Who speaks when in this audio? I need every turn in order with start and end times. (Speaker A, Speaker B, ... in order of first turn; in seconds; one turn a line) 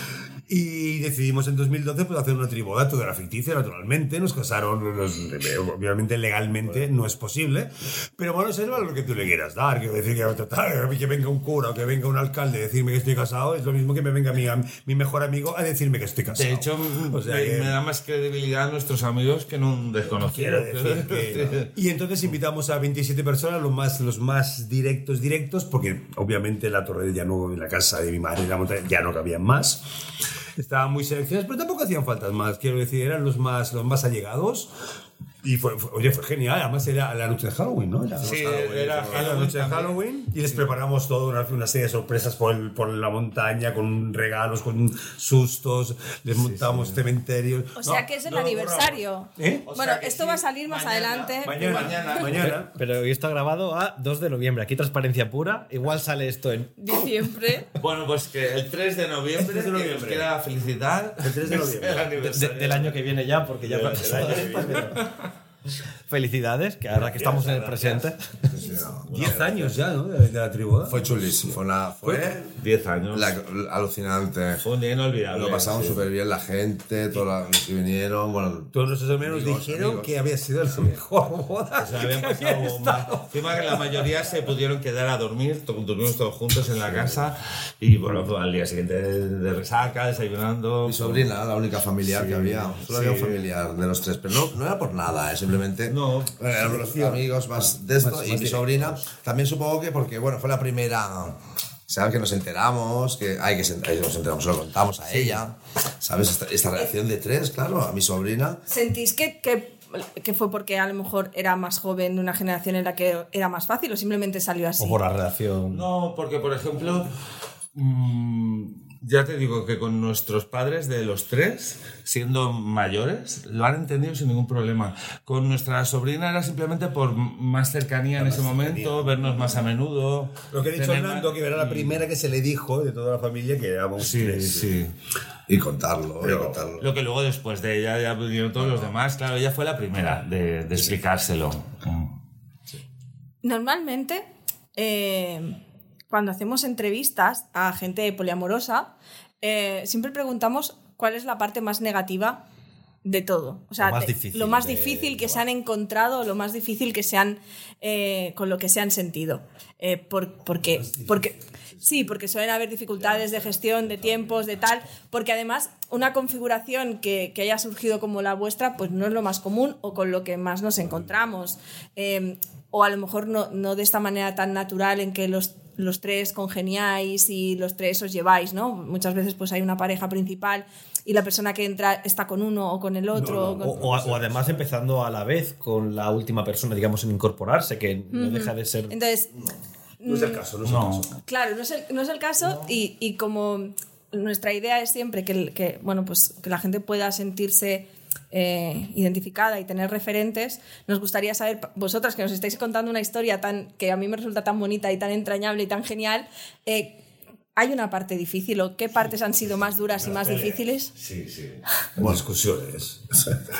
Speaker A: 0.5-17.8
Speaker B: 16.3-21.7
Speaker A: 20.2-29.8
Speaker A: 30.6-34.7
Speaker A: 35.4-38.4
Speaker C: 38.2-39.3
Speaker B: 38.2-40.6
Speaker A: 39.0-49.7
Speaker B: 46.4-47.0
Speaker D: 47.8-52.3
Speaker B: 49.7-52.6
Speaker A: 51.4-52.7
Speaker E: 52.7-56.8
Speaker D: 56.8-57.7
Speaker B: 57.8-63.0
Speaker A: 59.4-60.3
Speaker A: 61.2-62.3
Speaker E: 62.2-65.0
Speaker B: 63.6-65.1
Speaker A: 63.9-65.0
Speaker E: 66.1-68.3
Speaker A: 66.9-68.1
Speaker C: 68.5-69.6
Speaker B: 69.1-69.7
Speaker A: 69.1-72.3
Speaker C: 70.9-72.5
Speaker B: 72.6-73.3
Speaker C: 73.1-74.6
Speaker B: 74.6-76.1
Speaker C: 75.3-80.2
Speaker A: 78.7-83.9
Speaker B: 81.8-91.3
Speaker C: 90.8-101.4
Speaker B: 92.0-93.5
Speaker B: 95.9-96.4
Speaker A: 96.6-97.3
Speaker A: 98.0-99.0
Speaker C: 101.9-108.6
Speaker B: 105.1-105.4
Speaker D: 108.7-115.0
Speaker E: 114.8-115.9
Speaker B: 115.7-117.1
Speaker B: 117.8-132.0
Speaker A: 128.2-129.2
Speaker A: 130.5-134.9
Speaker B: 134.0-134.9
Speaker C: 135.5-136.8
Speaker A: 136.2-136.7
Speaker B: 136.8-142.1
Speaker C: 138.6-138.9
Speaker D: 143.4-145.6
Speaker D: 146.1-152.4
Speaker D: 153.1-183.8
Speaker E: 153.8-155.4
Speaker A: 160.7-161.4
Speaker C: 163.0-164.5
Speaker A: 183.1-184.7
Speaker E: 183.6-188.9
Speaker D: 188.1-189.3
Speaker D: 190.0-190.4
Speaker A: 190.1-191.2
Speaker B: 190.6-191.1
Speaker D: 191.3-207.0
Speaker C: 192.4-192.7
Speaker D: 207.6-210.9
Speaker A: 210.0-210.6
Speaker B: 211.0-211.6
Speaker A: 212.0-213.0